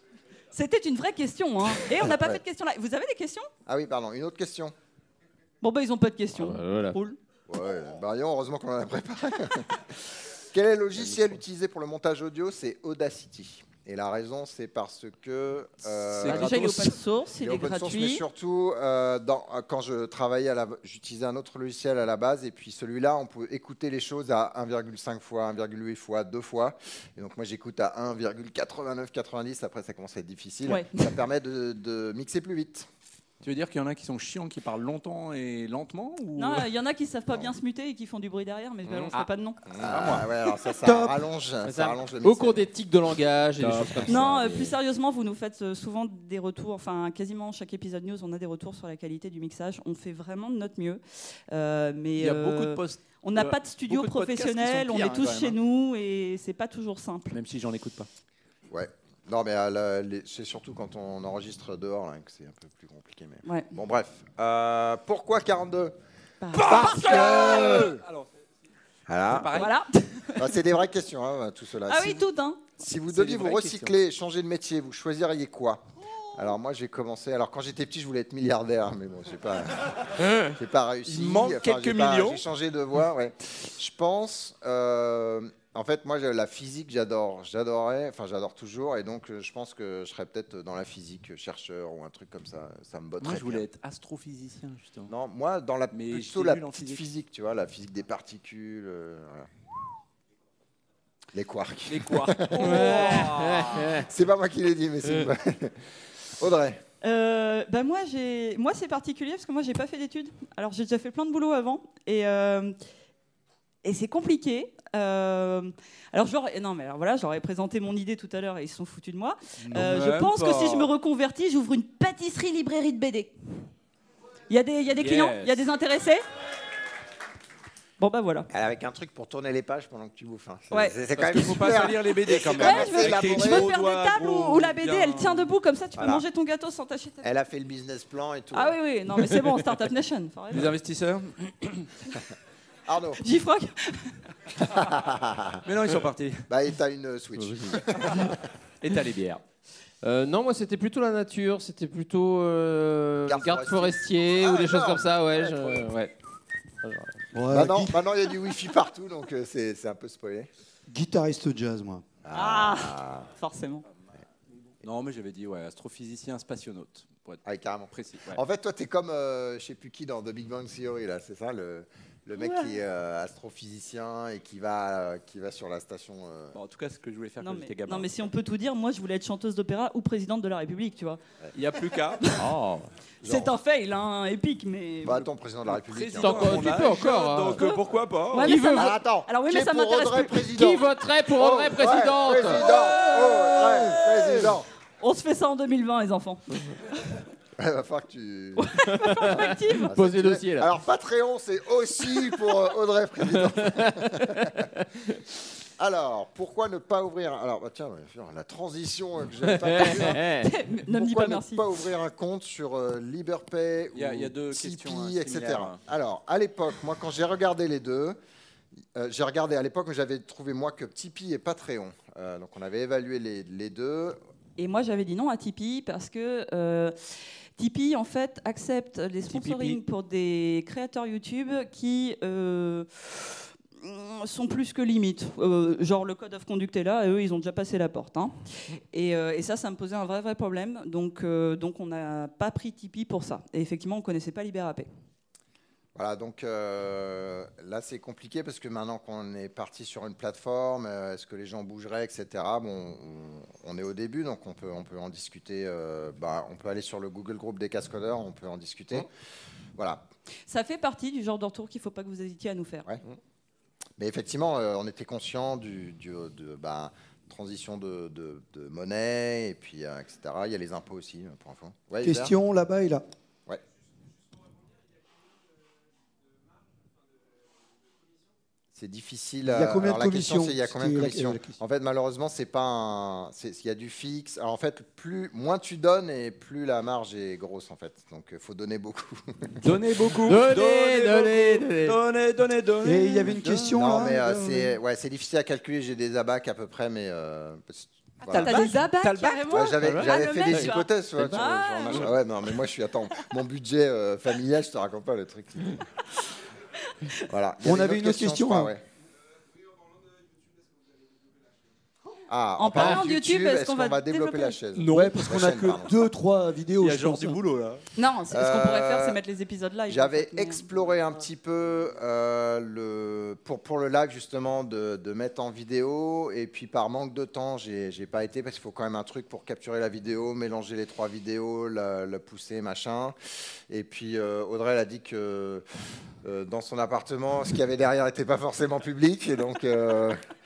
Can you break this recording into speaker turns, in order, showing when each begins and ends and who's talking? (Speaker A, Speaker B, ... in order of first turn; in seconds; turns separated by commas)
Speaker A: 0.5-3.5, Speaker B: 2.0-2.4, Speaker B: 3.7-4.8, Speaker A: 5.6-7.2, Speaker C: 6.4-7.0, Speaker B: 7.5-16.7, Speaker D: 16.1-17.0, Speaker A: 16.2-18.2, Speaker B: 17.4-32.9, Speaker A: 30.6-31.2, Speaker D: 33.4-36.7, Speaker A: 36.4-39.6, Speaker C: 38.9-39.3, Speaker B: 39.7-42.7, Speaker D: 39.8-40.3, Speaker E: 40.8-41.2, Speaker C: 41.6-44.7, Speaker D: 43.6-44.3, Speaker A: 44.1-57.4, Speaker D: 52.2-55.6, Speaker D: 57.3-58.1, Speaker B: 58.7-66.0, Speaker A: 63.5-63.7, Speaker A: 66.4-67.8, Speaker D: 66.5-68.3, Speaker B: 66.5-68.0, Speaker B: 69.1-69.7, Speaker D: 69.3-69.7, Speaker A: 69.5-70.6, Speaker B: 70.4-72.3, Speaker A: 71.9-72.8, Speaker B: 72.8-75.8, Speaker D: 73.1-73.9, Speaker B: 76.3-93.6, Speaker D: 81.1-82.4, Speaker D: 93.2-95.1, Speaker B: 95.1-99.5, Speaker D: 95.9-97.0, Speaker B: 101.3-103.1, Speaker D: 101.9-104.0, Speaker C: 102.6-104.1, Speaker A: 102.7-103.3, Speaker B: 104.0-105.8, Speaker B: 106.4-106.8, Speaker A: 107.0-112.8, Speaker A: 113.8-123.3, Speaker D: 119.7-120.9, Speaker A: 124.5-126.2, Speaker D: 125.0-125.7, Speaker A: 128.0-128.5, Speaker B: 128.5-133.7, Speaker A: 130.7-131.0, Speaker D: 131.2-135.5, Speaker A: 132.3-137.2, Speaker B: 136.0-136.2, Speaker B: 137.2-138.8, Speaker A: 138.5-140.7, Speaker D: 140.5-141.9, Speaker B: 142.9-143.2, Speaker A: 143.2-144.2, Speaker B: 144.6-145.6, Speaker D: 145.6-146.4, Speaker B: 146.5-148.5, Speaker D: 148.8-149.4, Speaker C: 150.0-156.1, Speaker B: 153.3-155.9, Speaker C: 156.8-157.3, Speaker E: 157.3-158.0, Speaker B: 157.5-160.5, Speaker E: 160.9-162.1, Speaker B: 162.2-163.3, Speaker A: 162.3-163.8, Speaker D: 164.8-168.4, Speaker B: 167.4-176.6, Speaker A: 172.4-172.8, Speaker D: 176.5-178.3, Speaker A: 177.4-181.2, Speaker D: 181.5-182.4, Speaker A: 182.2-182.5, Speaker C: 182.4-182.9, Speaker A: 183.2-185.3, Speaker B: 183.2-183.6, Speaker B: 185.0-186.8, Speaker D: 185.7-188.6, Speaker C: 186.2-187.6, Speaker A: 187.5-190.8, Speaker C: 188.4-188.9, Speaker B: 188.8-194.7, Speaker C: 190.6-192.8, Speaker A: 192.7-194.3, Speaker A: 195.0-196.7, Speaker B: 197.6-204.7, Speaker A: 198.6-199.9, Speaker C: 199.3-200.7, Speaker B: 205.8-210.3, Speaker C: 209.5-210.5, Speaker A: 210.3-211.7, Speaker B: 210.9-218.2, Speaker D: 213.9-215.8, Speaker B: 218.9-224.2, Speaker A: 224.6-226.9, Speaker A: 227.6-244.9, Speaker B: 245.9-259.1, Speaker B: 259.8-260.1, Speaker A: 260.5-262.9, Speaker B: 264.0-272.4, Speaker E: 272.0-273.1, Speaker B: 278.8-289.7, Speaker E: 279.4-281.6, Speaker D: 289.6-293.8, Speaker C: 290.2-292.0, Speaker E: 292.8-294.8, Speaker B: 293.7-298.7, Speaker D: 298.3-299.5, Speaker A: 298.3-302.1, Speaker B: 299.5-305.9, Speaker C: 299.8-301.4, Speaker B: 307.3-308.8, Speaker E: 307.6-308.7, Speaker B: 312.3-315.9, Speaker A: 312.6-314.6, Speaker D: 314.7-315.9, Speaker E: 314.9-317.4, Speaker D: 316.8-317.9, Speaker A: 318.0-320.7, Speaker B: 318.3-319.2, Speaker B: 319.9-333.2, Speaker B: 333.7-335.6, Speaker B: 336.2-340.2